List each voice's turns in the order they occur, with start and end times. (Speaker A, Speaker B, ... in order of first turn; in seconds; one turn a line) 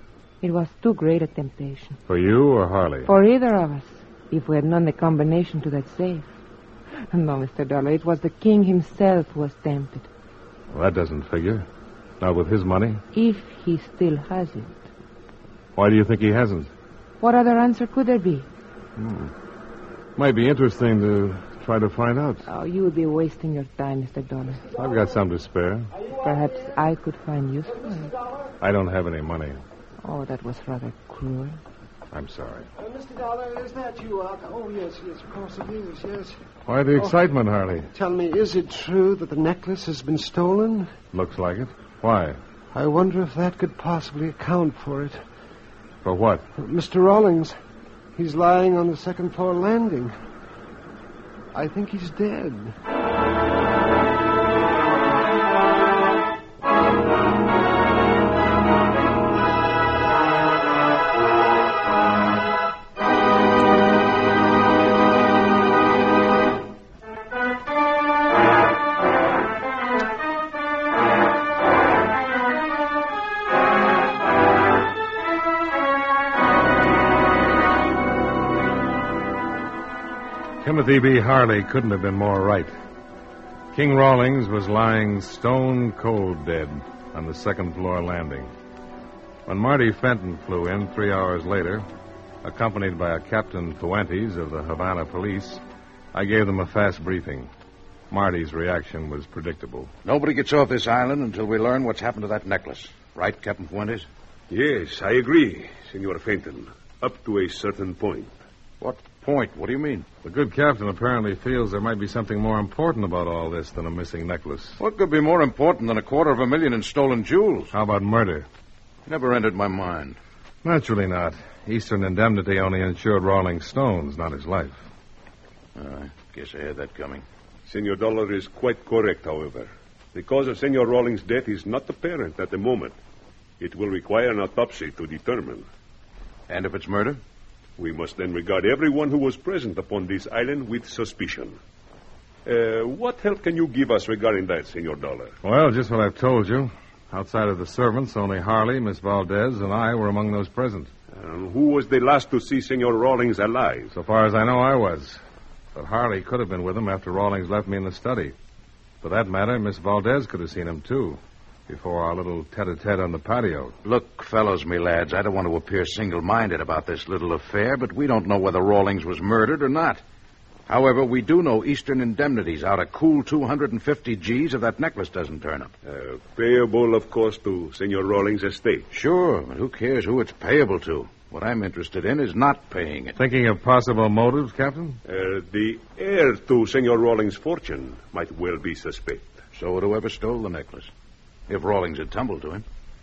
Speaker A: 0.4-2.0
Speaker B: 2.1-3.1
Speaker A: 3.0-6.3
Speaker A: 7.1-10.1
Speaker B: 10.7-11.7
Speaker B: 12.2-13.0
Speaker A: 13.1-14.9
Speaker B: 15.8-16.7
Speaker A: 17.2-18.5
Speaker B: 19.0-19.3
Speaker B: 20.2-22.4
Speaker A: 22.5-24.7
Speaker B: 24.7-25.9
Speaker A: 26.1-28.1
Speaker B: 28.6-29.6
Speaker A: 30.0-31.6
Speaker B: 32.1-32.7
Speaker C: 32.8-36.4
Speaker B: 36.7-37.9
Speaker C: 37.0-37.2
Speaker C: 37.9-40.9
Speaker B: 41.1-42.4
Speaker C: 42.7-45.2
Speaker B: 46.0-46.5
Speaker C: 46.5-47.6
Speaker C: 48.1-50.1
Speaker C: 51.5-52.8
Speaker B: 80.6-82.7
Speaker B: 83.7-88.5
Speaker B: 89.5-91.9
Speaker B: 92.4-95.6
Speaker B: 96.1-97.5
Speaker B: 98.1-99.9
Speaker D: 100.0-104.1
Speaker E: 104.5-108.3
Speaker D: 108.8-110.1
Speaker B: 110.2-114.8
Speaker D: 114.8-117.7
Speaker B: 117.7-118.5
Speaker D: 119.1-120.2
Speaker B: 120.6-124.8
Speaker D: 125.8-127.2
Speaker E: 127.7-132.9
Speaker E: 133.6-135.7
Speaker D: 136.5-137.2
Speaker E: 137.8-141.6
Speaker E: 142.5-145.3
Speaker B: 145.4-150.9
Speaker E: 151.1-153.9
Speaker B: 153.9-155.2
Speaker B: 155.8-158.4
Speaker B: 159.0-163.8
Speaker D: 163.8-170.0
Speaker D: 170.7-175.7
Speaker E: 175.8-178.9
Speaker D: 178.9-183.2
Speaker B: 183.2-185.0
Speaker E: 185.1-189.4
Speaker D: 189.5-190.9
Speaker D: 191.5-192.6